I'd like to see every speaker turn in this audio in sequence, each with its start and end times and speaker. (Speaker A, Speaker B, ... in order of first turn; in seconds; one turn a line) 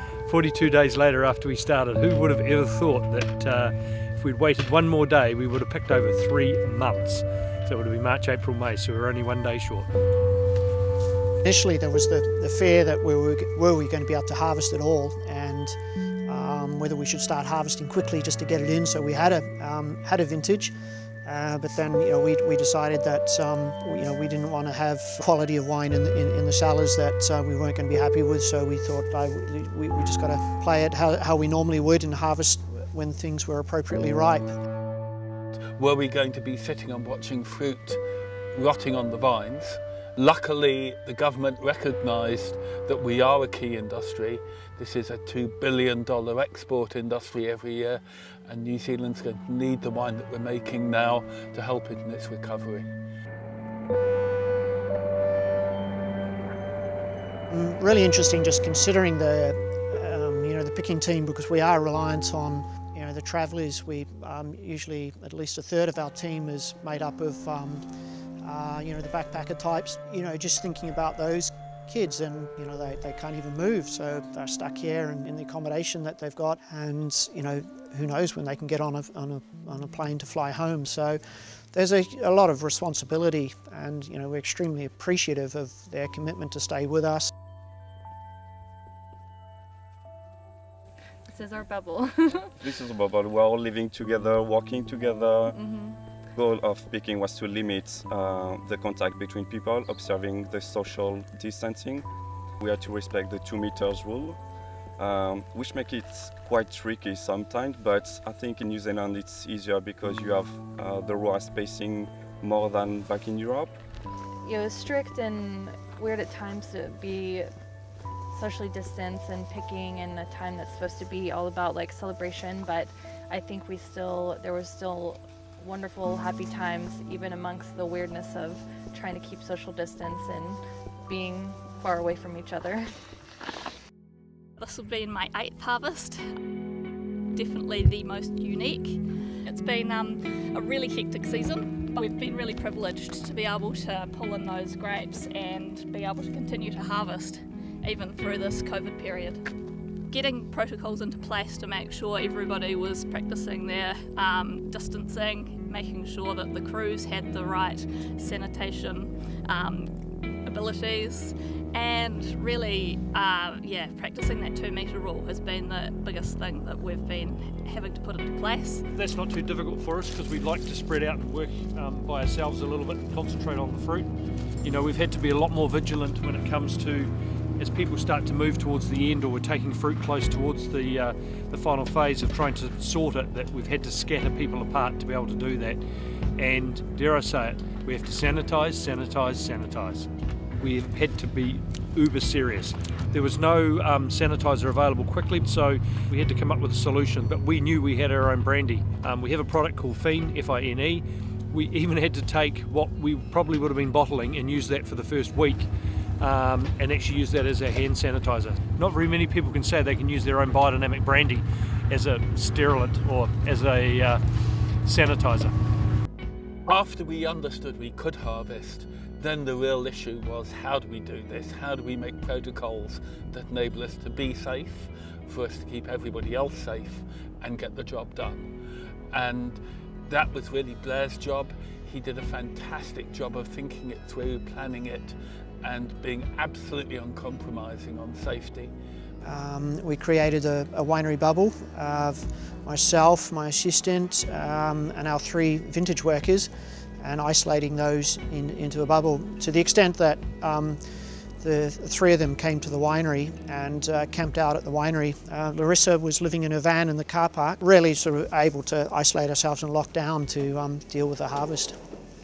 Speaker A: 0.2-9.9
Speaker B: 11.4-20.7
Speaker B: 21.2-34.5
Speaker C: 35.8-38.0
Speaker C: 38.5-52.9
Speaker B: 57.5-67.8
Speaker B: 68.4-87.3
Speaker D: 91.3-92.7
Speaker E: 92.6-95.6
Speaker D: 95.5-96.0
Speaker E: 96.3-102.1
Speaker E: 102.6-104.4
Speaker E: 105.0-113.7
Speaker D: 114.4-117.5
Speaker D: 118.3-132.9
Speaker F: 134.6-136.2
Speaker F: 137.3-149.4
Speaker F: 150.1-159.9
Speaker F: 160.4-168.8
Speaker A: 168.9-174.1
Speaker A: 174.6-185.8
Speaker A: 186.3-190.1
Speaker A: 190.6-214.2
Speaker A: 214.8-215.5
Speaker C: 216.7-228.5
Speaker C: 229.1-238.7
Speaker B: 239.2-261.8